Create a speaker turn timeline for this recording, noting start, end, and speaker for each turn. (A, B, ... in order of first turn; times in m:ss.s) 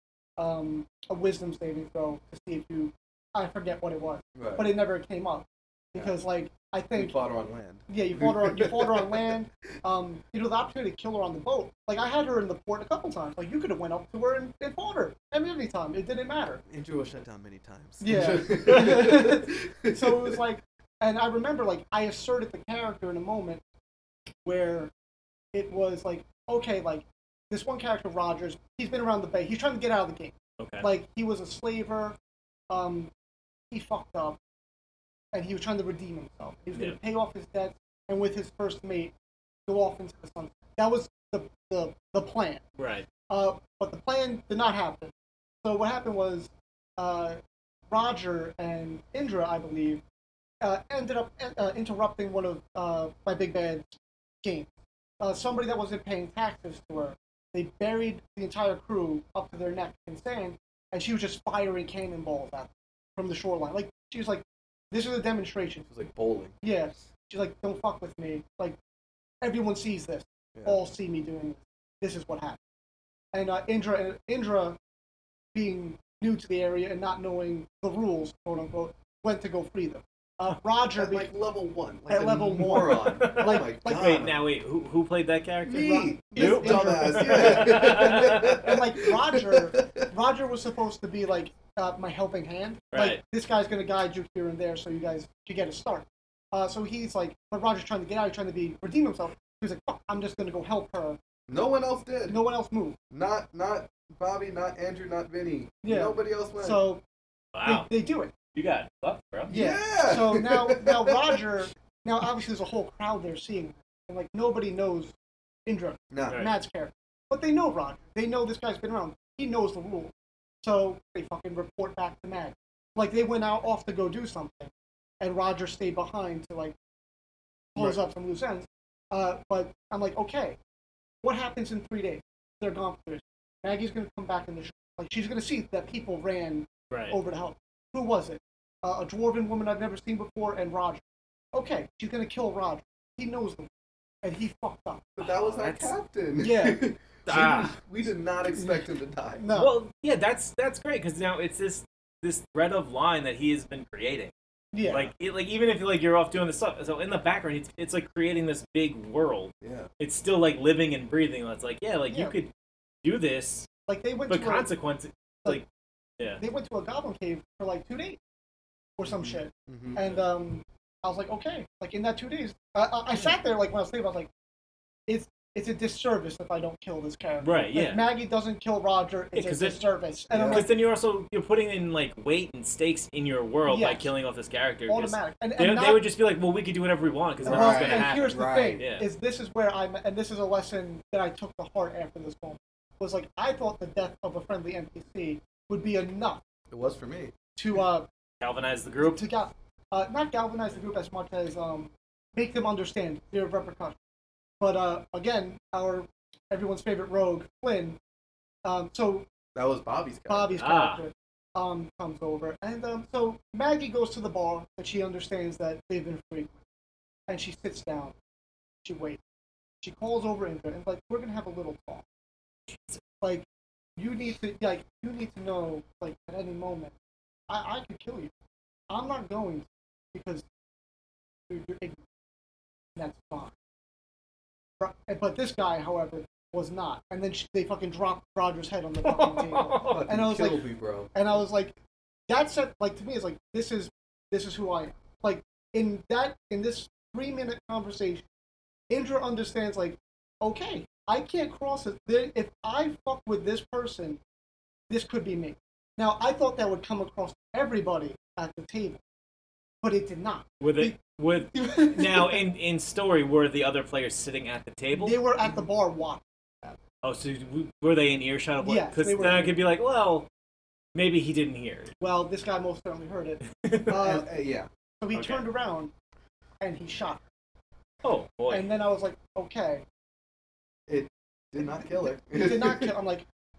0:00.4-0:07.2 A
0:04.4-0:04.7 B
0:06.9-0:09.3 B
0:07.9-0:16.6 A
0:16.7-0:20.4 B
0:18.0-0:23.6 A
0:24.4-0:24.9 A
0:25.5-0:32.2 A
0:30.6-0:30.9 C
0:32.7-0:33.1 A
0:33.7-0:34.4 A
0:35.3-0:39.1 A
0:39.7-0:42.6 A
0:42.8-0:43.1 C
0:43.3-0:45.1 A
0:45.6-0:47.4 A
0:47.9-0:50.0 A
0:50.6-0:54.7 A
0:55.2-1:05.9 A
1:05.9-1:06.5 B
1:06.6-1:08.8 A
1:09.4-1:12.6 A
1:13.3-1:14.8 A
1:15.5-1:21.3 A
1:21.0-1:24.4 B
1:22.1-1:24.2 A
1:23.2-1:28.7 C
1:25.6-1:30.1 B
1:25.8-1:41.2 A
1:32.9-1:33.2 C
1:41.5-1:42.4 B
1:42.3-1:43.0 A
1:43.1-1:46.8 B
1:45.8-1:47.0 A
1:47.5-1:47.9 C
1:47.6-1:48.3 A
1:48.5-1:49.5 C
1:49.5-1:51.4 B
1:49.5-1:55.1 A
1:55.6-2:00.1 A
1:56.1-1:56.4 B
2:00.6-2:06.7 A
2:07.7-2:10.6 A
2:11.2-2:21.0 A
2:16.9-2:17.2 C
2:21.5-2:23.7 A
2:24.2-2:25.2 A
2:25.2-2:29.4 B
2:25.4-2:25.9 C
2:26.4-2:26.8 A
2:27.3-2:27.7 C
2:28.5-2:28.8 A
2:29.4-2:29.7 A
2:29.5-2:34.3 C
2:34.7-2:35.1 A
2:34.9-2:42.5 C
2:39.6-2:39.9 B
2:42.1-2:42.3 A
2:43.0-2:43.7 C
2:43.9-2:44.7 A
2:44.3-2:45.6 C
2:46.3-2:48.2 A
2:49.0-2:54.3 A
2:49.0-2:50.0 B
2:55.1-3:00.7 A
2:57.4-2:58.0 C
2:59.3-2:59.8 C
3:00.3-3:00.6 B
3:00.5-3:09.1 C
3:03.6-3:04.1 A
3:04.9-3:06.0 A
3:07.4-3:08.8 B
3:07.4-3:16.4 A
3:16.7-3:17.4 B
3:17.6-3:18.1 A
3:18.4-3:19.2 C
3:19.0-3:23.9 A
3:24.6-3:28.0 A
3:28.6-3:29.2 A
3:29.5-3:30.6 B
3:30.3-3:36.5 A
3:30.6-3:31.0 C
3:37.3-3:38.1 A
3:38.8-3:39.2 A
3:39.8-3:42.0 A
3:42.7-3:43.0 C
3:43.2-3:43.4 A
3:44.0-3:46.9 A
3:47.5-3:48.3 A
3:48.9-3:50.4 A
3:51.5-3:52.0 A
3:53.0-3:53.5 A
3:54.8-4:01.7 A
3:59.0-4:00.0 C
3:59.9-4:01.1 B
4:02.3-4:08.2 A
4:08.9-4:14.2 A
4:14.9-4:19.0 A
4:19.8-4:21.0 A
4:20.6-4:25.2 C
4:21.5-4:22.5 A
4:24.9-4:26.8 A
4:27.0-4:30.3 C
4:28.6-4:29.6 A
4:30.9-4:31.9 C
4:32.0-4:34.3 A
4:33.4-4:34.0 C
4:33.9-4:34.7 B
4:35.0-4:35.9 A
4:35.1-4:35.4 C
4:36.6-4:37.2 A
4:38.0-4:38.7 C
4:38.5-4:39.8 A
4:40.9-4:42.9 B
4:42.2-4:43.2 A